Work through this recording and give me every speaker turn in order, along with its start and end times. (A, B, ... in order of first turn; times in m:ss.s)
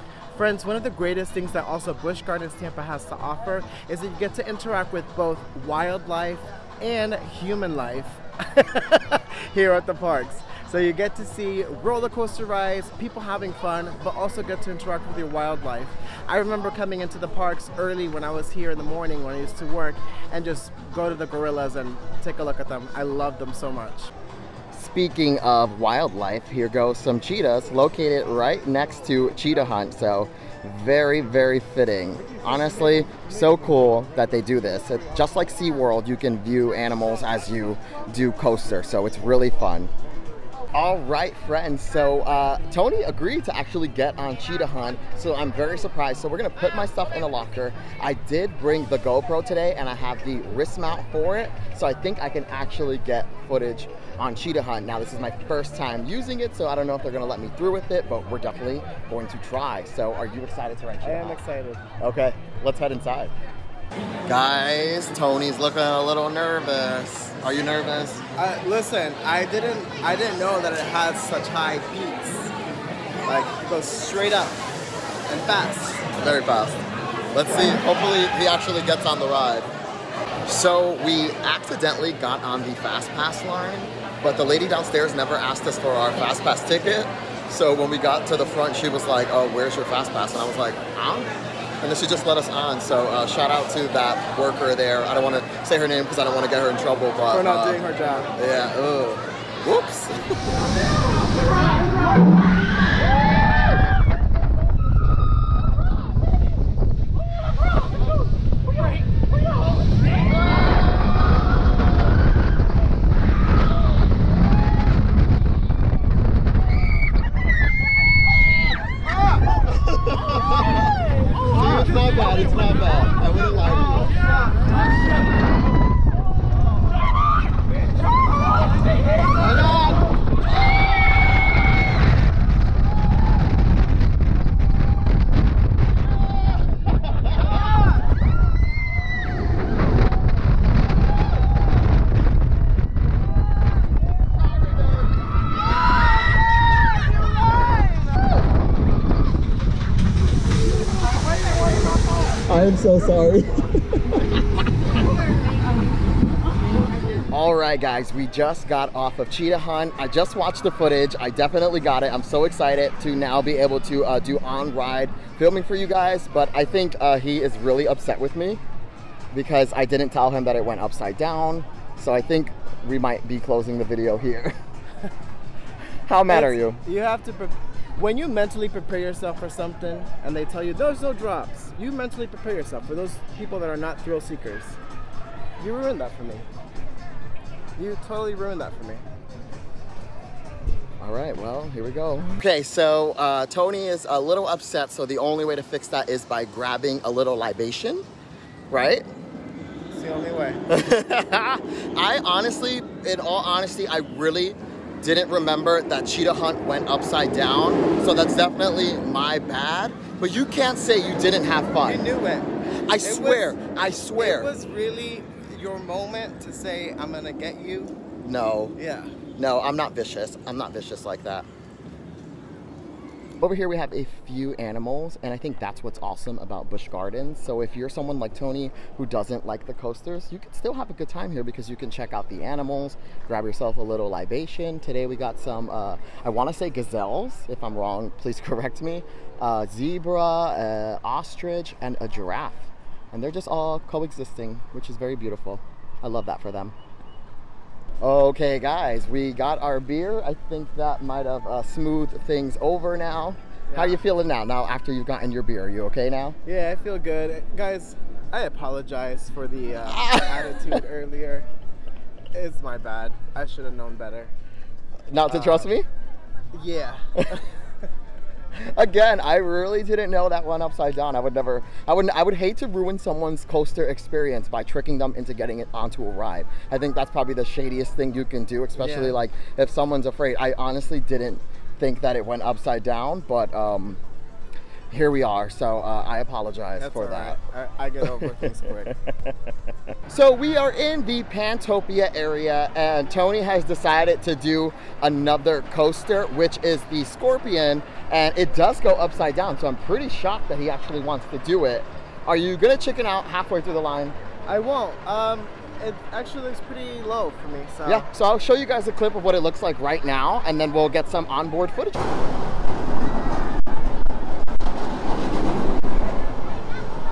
0:00.3-0:24.1 A
0:24.7-0:39.9 B
0:40.7-1:01.4 B
1:01.0-1:01.8 A
1:02.0-1:03.3 B
1:04.3-1:08.2 B
1:08.4-1:12.5 A
1:13.2-1:14.7 A
1:15.3-1:16.1 A
1:16.2-1:19.7 B
1:20.4-1:31.3 B
1:31.8-1:37.8 B
1:37.3-1:38.3 A
1:38.4-1:40.4 B
1:59.6-2:04.1 B
2:09.4-2:10.0 B
2:24.5-2:25.0 B
2:32.4-2:33.7 B
2:37.3-2:48.6 B
2:49.3-2:54.6 B
2:56.1-2:56.8 B
2:56.3-3:04.8 A
3:05.6-3:06.5 A
3:07.8-3:09.0 A
3:11.0-3:18.0 B
3:18.7-3:19.1 B
3:19.9-3:20.6 A
3:20.7-3:32.0 B
3:31.8-3:33.6 A
3:32.9-3:34.5 B
3:34.2-3:37.9 A
3:38.2-3:38.7 B
3:38.8-3:39.1 A
3:39.4-3:41.5 B
3:43.4-4:06.7 B
4:08.0-4:16.4 B
4:13.7-4:14.0 A
4:16.4-4:21.5 A
4:19.8-4:20.8 B
4:22.3-4:24.3 A
4:25.1-4:25.9 B
4:25.3-4:25.7 A
4:26.5-4:27.4 A
4:28.6-4:44.0 B
4:38.8-4:39.2 A
4:44.9-4:47.4 B
4:46.8-4:48.9 A
4:48.0-4:49.3 B
4:50.1-5:04.2 B
5:04.5-5:08.1 A
5:07.8-5:12.1 B